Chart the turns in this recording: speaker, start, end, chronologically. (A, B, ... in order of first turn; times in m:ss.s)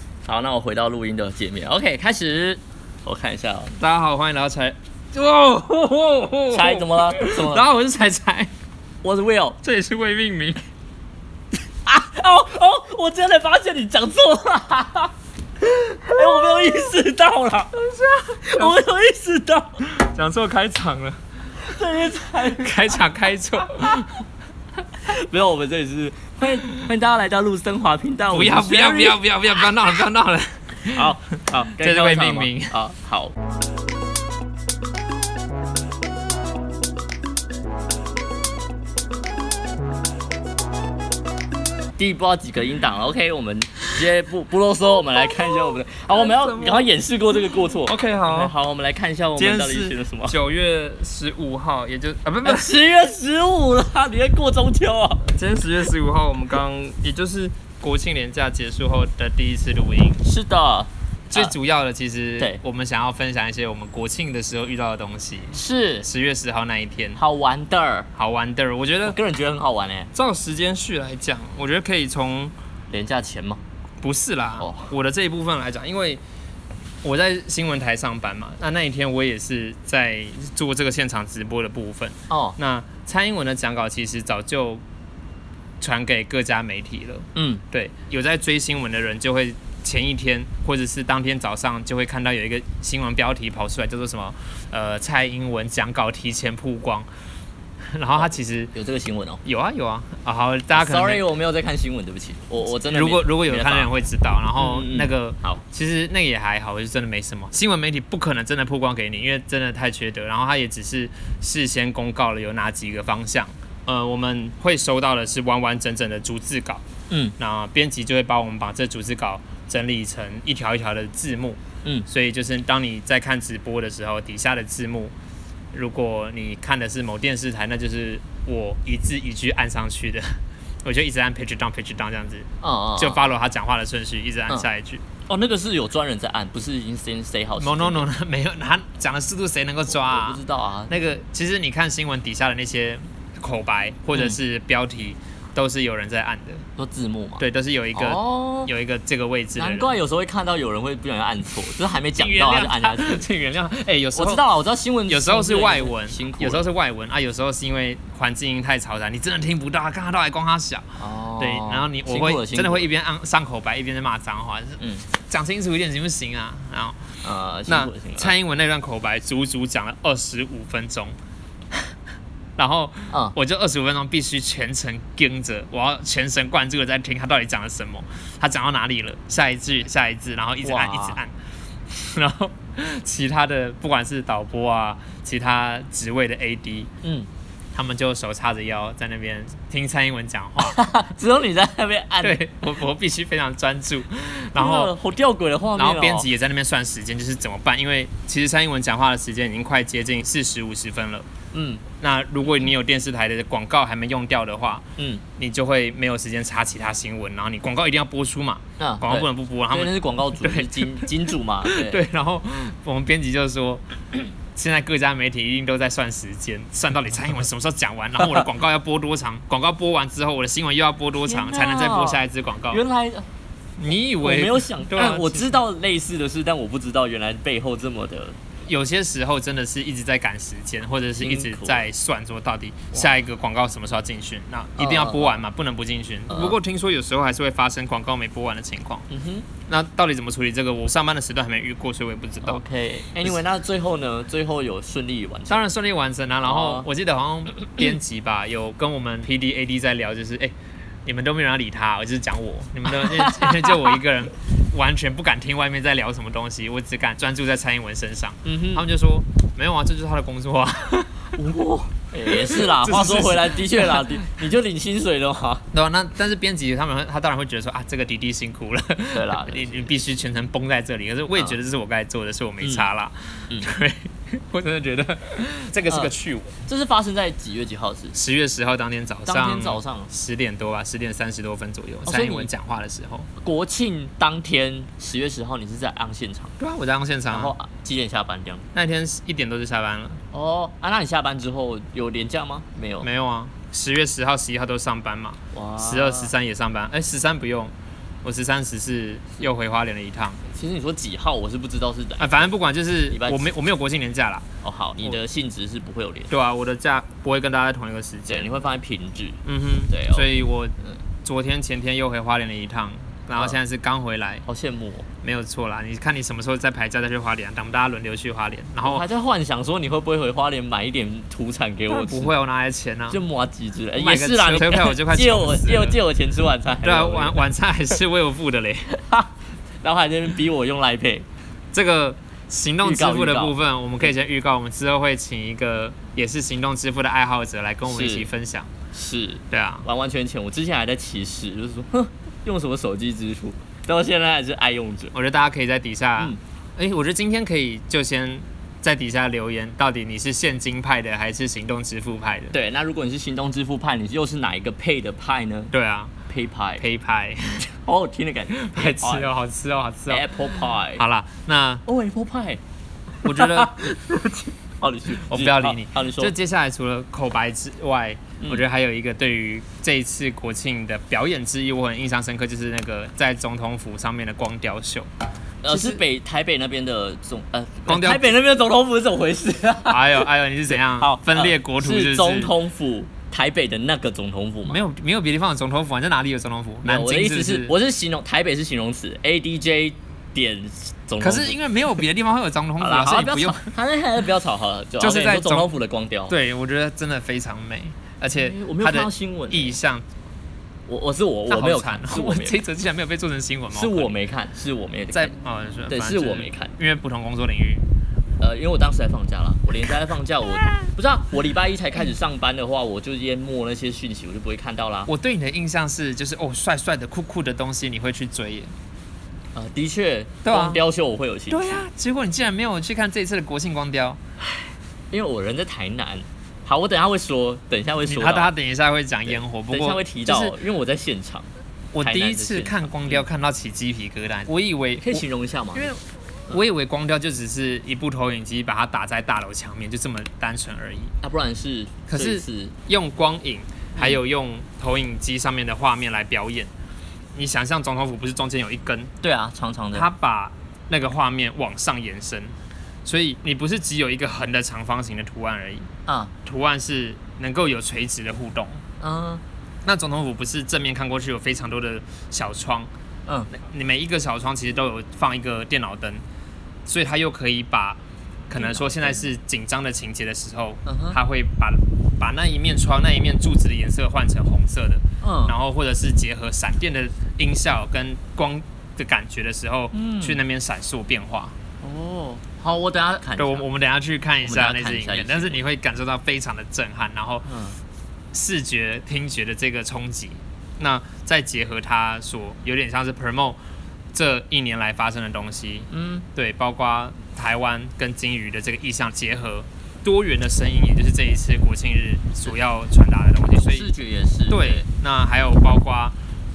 0:00.2-0:03.8 A
0:03.8-0:08.5 B
0:06.5-0:07.6 A
0:09.0-0:09.6 A
0:09.6-0:10.6 B
0:11.9-0:17.8 A
0:17.8-0:18.8 B
0:18.4-0:19.8 A
0:19.9-0:21.2 B
0:21.6-0:22.9 A
0:22.6-0:24.2 B
0:25.0-0:29.2 A
0:28.3-0:31.2 B
0:30.9-0:33.4 A
0:31.7-0:32.8 B
0:42.0-0:50.4 A
0:46.1-0:46.9 B
0:47.9-0:48.5 B
0:49.4-0:52.8 B
0:52.4-0:55.3 A
0:55.3-1:00.2 B
1:00.2-1:01.5 A
1:01.3-1:07.2 B
1:05.5-1:06.1 A
1:07.2-1:08.1 A
1:08.2-1:09.2 B
1:09.0-1:10.1 A
1:10.1-1:12.5 B
1:12.9-1:13.6 A
1:14.0-1:16.2 B
1:14.6-1:14.9 A
1:17.0-1:24.8 B
1:22.3-1:22.6 A
1:25.8-1:37.1 B
1:27.4-1:27.6 A
1:37.8-1:38.7 B
1:38.2-1:39.4 A
1:39.4-1:41.2 B
1:40.7-1:43.9 A
1:42.9-1:56.8 B
1:44.6-1:45.6 A
1:57.1-1:57.4 A
1:57.4-2:05.1 B
2:05.7-2:15.0 B
2:12.6-2:13.2 A
2:15.3-2:18.1 A
2:17.6-2:26.6 B
2:19.9-2:20.9 A
2:24.1-2:24.4 A
2:26.8-2:28.7 A
2:27.4-2:30.0 B
2:29.6-2:33.2 A
2:32.2-2:34.4 B
2:34.1-2:36.7 A
2:35.1-2:47.1 B
2:41.0-2:42.9 A
2:44.8-2:45.0 A
2:47.2-2:48.3 A
2:47.7-2:51.2 B
2:52.6-3:01.3 B
3:00.6-3:01.2 A
3:01.9-3:06.9 B
3:07.0-3:07.3 A
3:07.7-3:10.8 B
3:10.6-3:12.4 A
3:12.2-3:14.9 B
3:14.6-3:16.3 A
3:15.8-3:21.3 B
3:21.5-3:21.8 A
3:22.0-3:33.8 B
3:25.0-3:25.2 A
3:28.8-3:32.0 A
3:34.5-3:42.8 B
3:41.2-3:43.3 A
3:43.8-3:45.6 B
3:44.2-3:48.4 A
3:48.7-3:59.1 B
3:51.2-3:51.9 A
3:54.8-3:55.4 A
3:56.3-3:56.6 A
3:59.1-3:59.5 A
3:59.7-4:02.6 B
4:02.4-4:05.6 A
4:05.5-4:10.5 B
4:06.4-4:06.9 A
4:11.0-4:21.4 B
4:12.9-4:14.0 A
4:18.4-4:18.8 A
4:21.4-4:25.7 A
4:22.2-4:24.1 B
4:25.7-4:36.5 B
4:29.1-4:29.9 A
4:35.9-4:36.1 A
4:36.7-4:38.2 A
4:38.1-4:43.3 B
4:39.3-4:40.1 A
4:42.1-4:42.5 A
4:43.4-4:46.6 A
4:46.6-4:47.6 B
4:47.3-4:48.7 A
4:48.7-4:50.2 B
4:50.3-4:53.1 A
4:53.0-5:00.4 B
4:55.5-4:56.3 A
5:00.5-5:02.5 A
5:02.2-5:04.5 B
5:03.1-5:03.5 A
5:04.6-5:06.3 A
5:06.3-5:08.6 B
5:08.3-5:11.0 A
5:09.4-5:14.4 B
5:14.5-5:15.1 A
5:15.2-5:19.0 B
5:18.8-5:22.3 A
5:21.9-5:23.2 B
5:23.1-5:27.4 A
5:24.0-5:26.0 B
5:26.8-5:28.9 B
5:28.9-5:29.3 A
5:29.8-5:31.3 A
5:31.7-5:38.7 B
5:32.8-5:34.0 A
5:37.9-5:38.3 A
5:38.9-5:45.2 A
5:39.5-5:39.9 B
5:45.1-5:52.5 B
5:52.5-5:55.7 A
5:55.7-5:56.1 B
5:56.3-5:56.8 A
5:56.8-5:57.7 B
5:57.8-5:59.3 A
5:58.6-6:00.3 B
6:00.1-6:01.0 A
6:01.0-6:01.8 B
6:01.9-6:02.6 A
6:03.2-6:03.9 B
6:03.2-6:06.3 A
6:05.2-6:15.1 B
6:15.6-6:24.8 A
6:15.7-6:16.0 B
6:17.9-6:18.3 B
6:19.9-6:22.5 B
6:24.7-6:27.7 B
6:26.8-6:31.6 A
6:31.2-6:33.7 B
6:32.8-6:36.4 A
6:35.0-6:35.7 B
6:36.3-6:40.1 B
6:38.4-6:39.8 A
6:40.9-6:42.6 A
6:41.5-6:44.1 B
6:43.7-6:45.3 A
6:45.1-6:47.9 B
6:45.9-6:46.8 A
6:48.4-6:55.1 A
6:55.1-6:58.7 B
6:59.6-7:01.9 A
7:00.4-7:00.8 B
7:01.5-7:04.2 B
7:05.1-7:08.5 A
7:08.0-7:10.6 B
7:09.2-7:11.5 A
7:11.9-7:15.2 B
7:12.0-7:13.2 A
7:15.0-7:15.9 A
7:15.8-7:21.1 B
7:21.2-7:22.8 A
7:22.1-7:26.7 B
7:27.3-7:29.1 B
7:29.2-7:30.1 A
7:29.9-7:35.9 B
7:36.1-7:36.3 A
7:36.4-7:38.8 B
7:39.0-7:39.4 A
7:39.8-7:42.9 B
7:43.5-7:46.2 B
7:46.9-8:01.6 B
7:48.6-7:49.3 A
7:50.9-7:51.2 A
7:55.2-7:55.6 A
7:59.9-8:00.4 A
8:01.8-8:03.6 A
8:03.4-8:07.5 B
8:04.4-8:05.7 A
8:07.4-8:07.8 A
8:08.3-8:13.6 B
8:14.1-8:23.9 B
8:15.9-8:16.3 A
8:23.5-8:24.8 A
8:24.5-8:26.2 B